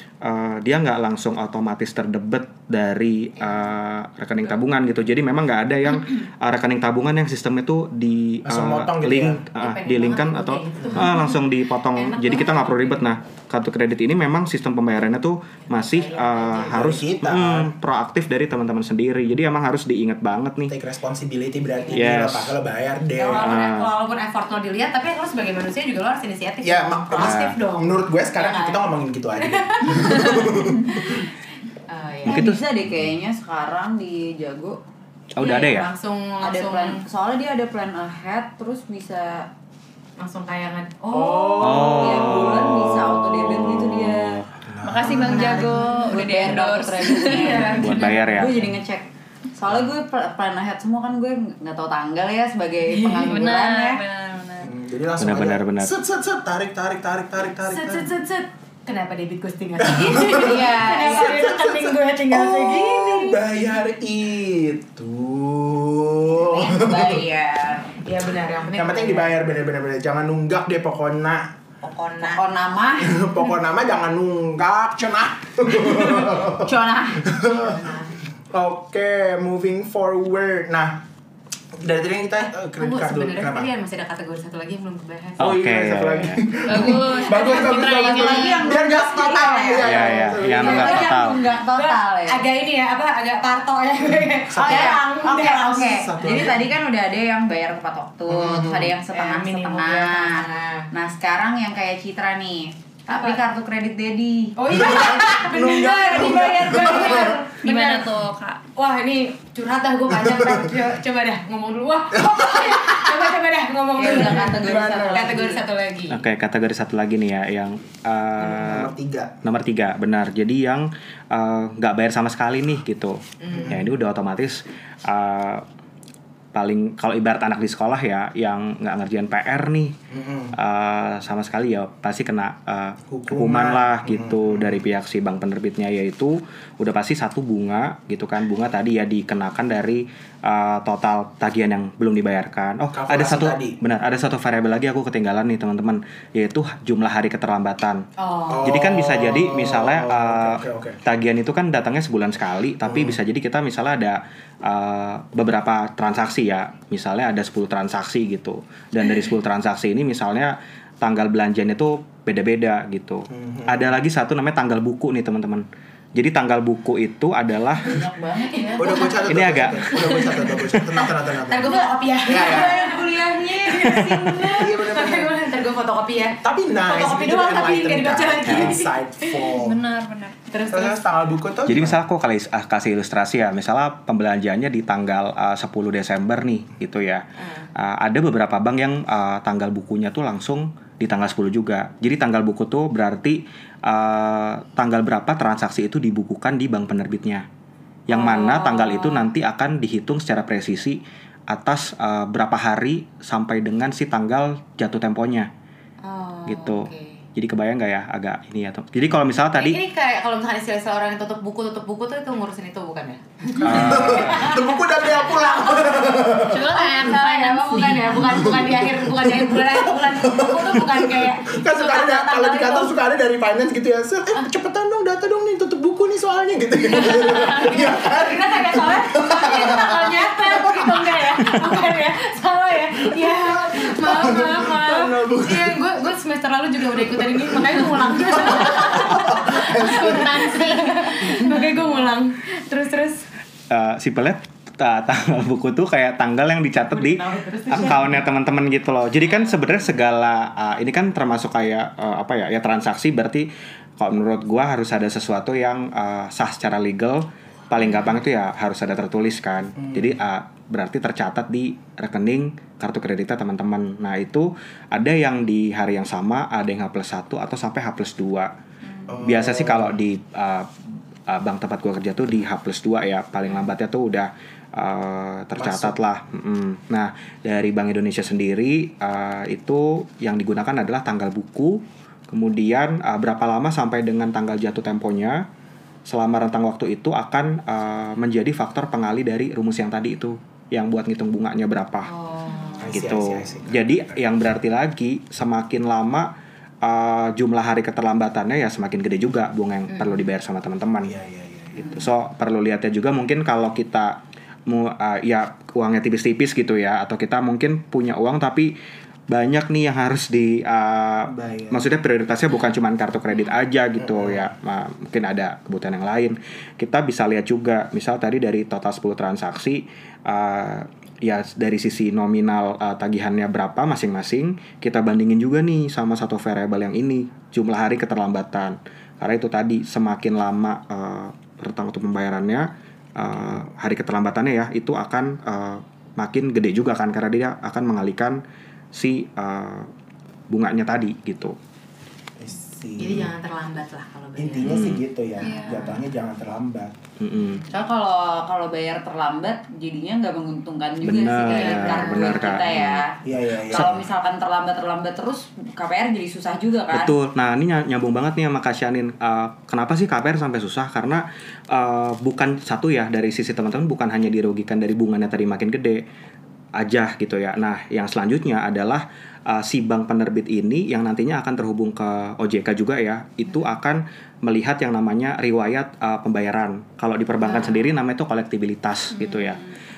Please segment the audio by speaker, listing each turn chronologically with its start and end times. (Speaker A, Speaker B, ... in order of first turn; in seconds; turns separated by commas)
Speaker A: 0.2-20.7, Speaker B: 8.4-9.4, Speaker C: 9.6-11.4, Speaker C: 11.9-13.1, Speaker C: 15.6-17.0, Speaker B: 16.7-17.7, Speaker B: 20.7-23.5, Speaker C: 21.7-22.1, Speaker A: 21.9-22.5, Speaker C: 23.1-31.2, Speaker A: 23.4-23.9, Speaker B: 26.6-30.9, Speaker A: 27.2-27.5, Speaker C: 31.9-32.5, Speaker D: 32.2-34.8, Speaker A: 32.2-32.6, Speaker A: 35.4-35.9, Speaker D: 35.4-35.8, Speaker C: 35.4-37.0, Speaker D: 36.4-39.5, Speaker C: 40.2-42.1, Speaker B: 41.1-42.4, Speaker D: 41.4-44.4, Speaker A: 41.6-44.4, Speaker B: 44.6-45.5, Speaker E: 44.8-48.0, Speaker D: 45.2-54.0, Speaker C: 45.3-46.2, Speaker C: 47.2-48.1, Speaker A: 47.8-48.6, Speaker B: 48.4-48.7, Speaker C: 52.9-53.4, Speaker E: 53.2-54.7, Speaker B: 54.6-58.1, Speaker A: 55.2-55.9, Speaker C: 57.6-63.4, Speaker B: 59.8-67.2, Speaker D: 60.2-61.4, Speaker D: 66.5-67.9, Speaker C: 68.0-69.4, Speaker B: 68.7-71.5, Speaker C: 71.8-72.4, Speaker D: 72.2-73.3, Speaker B: 73.0-76.7, Speaker D: 75.9-77.3, Speaker B: 77.2-77.7, Speaker C: 77.3-78.1, Speaker B: 78.5-81.0, Speaker B: 81.7-83.7, Speaker C: 82.8-85.4, Speaker B: 85.4-91.2, Speaker A: 85.4-86.5, Speaker E: 86.7-88.7, Speaker C: 87.3-88.4, Speaker D: 87.4-92.4, Speaker A: 89.8-91.5, Speaker C: 90.6-91.1, Speaker C: 91.7-96.5, Speaker B: 94.5-96.6, Speaker D: 94.6-107.5, Speaker B: 98.3-98.9, Speaker C: 99.1-100.8, Speaker C: 103.1-103.4, Speaker C: 104.5-108.1, Speaker B: 104.8-107.4, Speaker E: 107.6-108.6, Speaker C: 108.8-116.2, Speaker B: 110.3-110.6, Speaker B: 112.2-113.2, Speaker D: 114.0-115.6, Speaker B: 114.0-115.4, Speaker A: 116.1-118.9, Speaker B: 118.4-119.3, Speaker A: 119.4-125.6, Speaker C: 123.4-123.8, Speaker B: 123.5-123.8, Speaker A: 126.5-129.9, Speaker B: 130.1-130.6, Speaker A: 130.5-148.1, Speaker B: 133.1-134.8, Speaker B: 142.9-143.8, Speaker C: 148.2-148.7, Speaker B: 148.5-151.0, Speaker A: 148.6-167.9, Speaker B: 152.8-153.2, Speaker B: 163.3-163.9, Speaker D: 167.8-169.3, Speaker C: 168.5-169.2, Speaker B: 168.8-172.8, Speaker A: 169.3-170.6, Speaker C: 171.4-179.3, Speaker D: 172.3-174.2, Speaker A: 173.8-174.5, Speaker B: 174.5-175.3, Speaker B: 176.4-179.8, Speaker A: 178.5-178.8, Speaker E: 179.5-180.4, Speaker C: 180.5-181.0, Speaker B: 180.7-182.0, Speaker A: 181.7-197.4, Speaker C: 187.4-187.7, Speaker A: 198.1-205.5, Speaker C: 198.1-199.3, Speaker C: 206.0-207.2, Speaker A: 206.4-209.8, Speaker C: 209.6-222.9, Speaker B: 213.5-216.7, Speaker A: 213.6-214.5, Speaker E: 216.4-218.3, Speaker B: 218.2-231.2, Speaker C: 226.9-243.2, Speaker B: 233.2-235.8, Speaker B: 236.9-240.6, Speaker A: 243.7-268.5, Speaker C: 246.9-248.2, Speaker C: 257.8-258.1, Speaker B: 259.8-260.2, Speaker B: 269.1-270.0, Speaker A: 269.1-285.4, Speaker B: 275.6-276.0, Speaker A: 286.1-292.1, Speaker C: 292.0-293.0, Speaker B: 292.8-294.1, Speaker A: 292.8-296.3, Speaker A: 296.8-301.1, Speaker C: 299.9-300.2, Speaker B: 301.0-302.0, Speaker A: 301.8-308.7, Speaker A: 309.3-338.4, Speaker B: 311.3-311.8, Speaker B: 314.0-314.5, Speaker A: 338.9-339.9, Speaker A: 340.5-341.6, Speaker B: 342.4-343.3, Speaker C: 343.0-345.6, Speaker B: 344.4-346.9, Speaker A: 344.6-345.0, Speaker E: 345.4-345.9, Speaker A: 347.2-347.6, Speaker D: 347.7-357.1, Speaker A: 351.0-353.0, Speaker C: 351.8-352.3, Speaker B: 353.2-354.0, Speaker A: 353.7-354.0, Speaker A: 356.9-366.0, Speaker A: 366.8-379.6, Speaker C: 377.4-377.9, Speaker E: 379.1-379.7